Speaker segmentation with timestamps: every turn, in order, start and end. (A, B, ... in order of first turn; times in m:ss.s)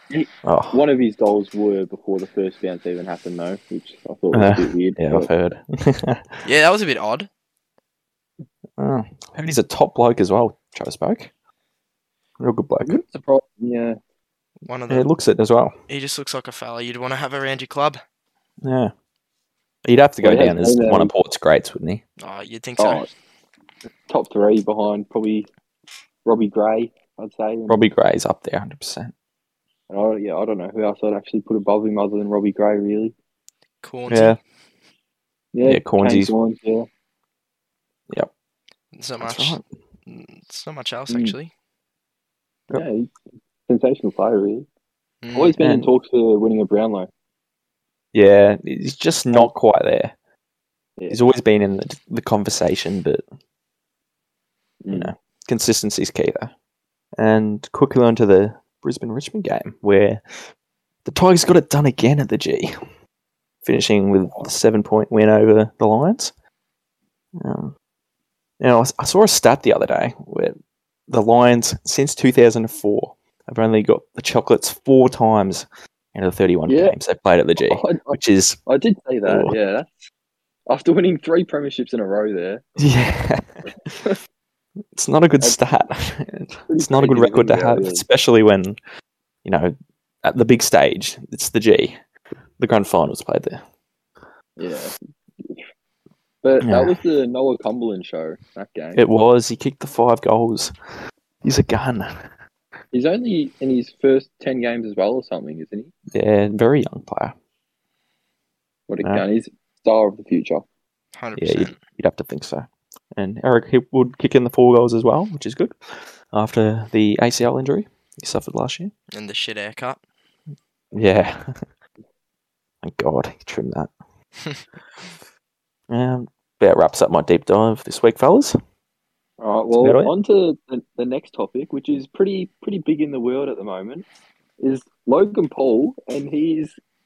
0:00.1-0:05.3 A
0:00.4-0:00.8 B
0:04.3-0:06.3 B
0:06.4-0:07.3 C
0:08.8-0:11.3 B
0:12.4-0:13.0 B
0:12.8-0:14.0 A
0:14.6-0:15.1 C
0:14.9-0:15.8 B
0:15.9-0:18.0 C
0:18.6-0:18.9 B
0:19.8-0:22.0 B
0:20.2-0:21.1 A
0:22.2-0:23.1 C
0:22.8-0:23.1 A
0:24.1-0:25.5 A
0:26.2-0:27.8 A
0:27.7-0:29.1 B
0:29.9-0:33.1 A
0:33.8-0:34.4 C
0:34.1-0:34.4 B
0:35.5-0:36.9 A
0:35.6-0:36.3 B
0:38.9-0:41.5 C
0:39.2-0:39.6 B
0:41.1-0:41.4 A
0:42.7-0:43.1 A
0:43.7-0:44.6 A
0:45.2-0:45.5 C
0:45.3-0:47.1 A
0:45.6-0:45.9 B
0:48.1-0:50.1 B
0:51.1-0:53.2 B
0:54.8-0:55.1 A
0:54.9-0:56.5 B
0:57.2-1:00.2 B
1:01.0-1:02.8 B
1:03.6-1:06.3 B
1:07.4-1:07.7 B
1:08.6-1:10.6 B
1:11.1-1:18.6 B
1:16.7-1:16.9 A
1:17.6-1:19.9 A
1:19.2-1:19.5 B
1:20.7-1:22.6 A
1:22.8-1:23.6 B
1:24.9-1:28.8 B
1:25.4-1:25.6 A
1:26.7-1:28.0 A
1:29.4-1:32.0 B
1:32.6-1:33.6 B
1:34.6-1:35.6 A
1:36.4-1:39.0 A
1:36.6-1:37.0 B
1:38.9-1:40.7 B
1:41.4-1:42.3 B
1:42.9-1:45.9 A
1:46.1-1:47.4 B
1:48.9-1:50.6 A
1:51.1-1:51.8 C
1:51.4-1:58.9 B
1:59.1-2:00.0 C
2:00.9-2:01.6 B
2:02.8-2:03.9 B
2:05.9-2:08.6 B
2:09.4-2:14.0 A
2:09.8-2:10.1 B
2:14.6-2:16.7 A